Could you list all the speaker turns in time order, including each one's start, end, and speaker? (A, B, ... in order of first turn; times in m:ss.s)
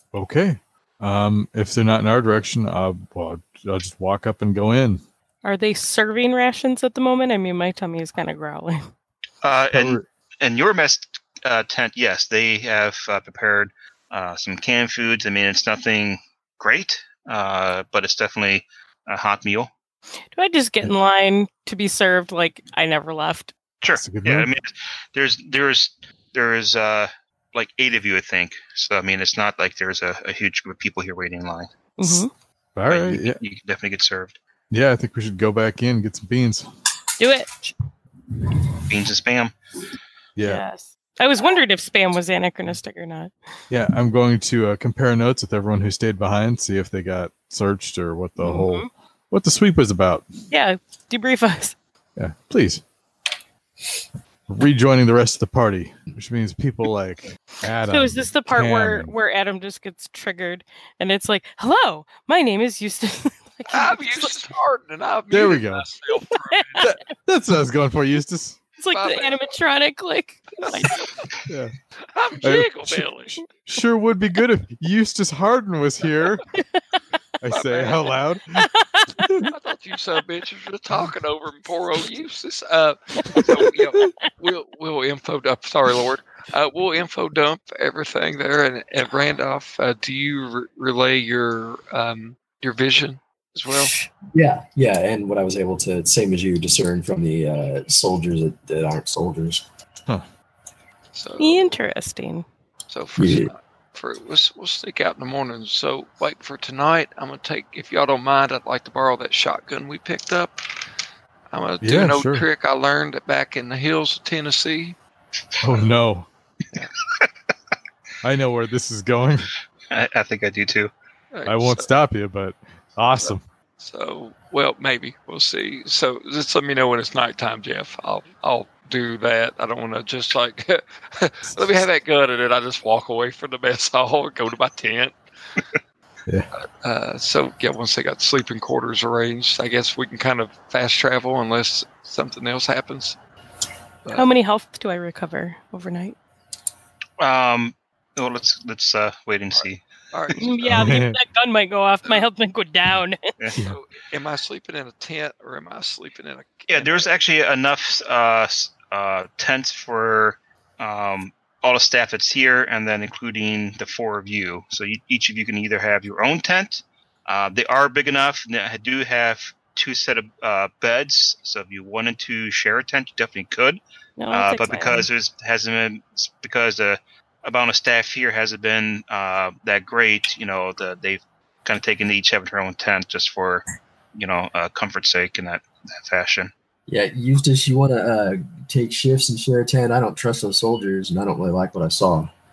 0:00.1-0:05.0 A
0:05.4-0:08.9 B
0:09.4-0:19.7 C
0:09.7-0:10.0 A
0:20.3-0:23.5 B
0:23.8-0:31.7 C
0:23.9-0:24.5 A
0:32.0-0:32.3 B
0:32.8-0:33.4 A
0:32.9-0:34.4 C
0:34.7-0:36.7 A
0:37.2-0:37.7 B
0:38.8-0:39.5 C
0:40.4-0:40.6 A
0:40.4-0:43.3 B
0:43.7-0:50.3 A
0:48.4-0:48.9 B
0:50.5-0:51.8 B
0:52.2-0:52.8 A
0:54.5-0:59.1 A
0:57.8-1:04.4 B
1:03.7-1:06.8 D
1:05.3-1:05.9 A
1:06.5-1:07.0 B
1:06.8-1:08.6 A
1:08.8-1:11.0 B
1:08.9-1:09.4 D
1:10.6-1:11.3 D
1:11.4-1:11.7 A
1:12.0-1:13.4 D
1:12.4-1:16.4 A
1:17.4-1:19.5 A
1:17.5-1:18.1 D
1:18.6-1:19.2 B
1:19.5-1:33.9 D
1:33.7-1:39.6 E
1:41.1-1:41.7 D
1:41.4-1:42.4 B
1:42.9-1:50.6 D
1:43.2-1:43.5 E
1:51.5-1:55.0 D
1:51.8-1:52.5 A
1:55.6-1:56.3 A
1:58.2-1:59.5 A
1:59.9-2:00.9 C
2:01.3-2:01.9 D
2:01.4-2:03.4 A
2:03.2-2:15.2 D
2:16.6-2:23.2 D
2:24.1-2:26.2 B
2:27.2-2:29.8 C
2:29.5-2:31.0 D
2:30.4-2:33.3 B
2:30.7-2:31.2 A
2:33.6-2:37.1 D
2:36.7-2:53.8 C
2:54.2-2:55.1 B
2:54.3-3:06.5 C
3:06.9-3:12.3 E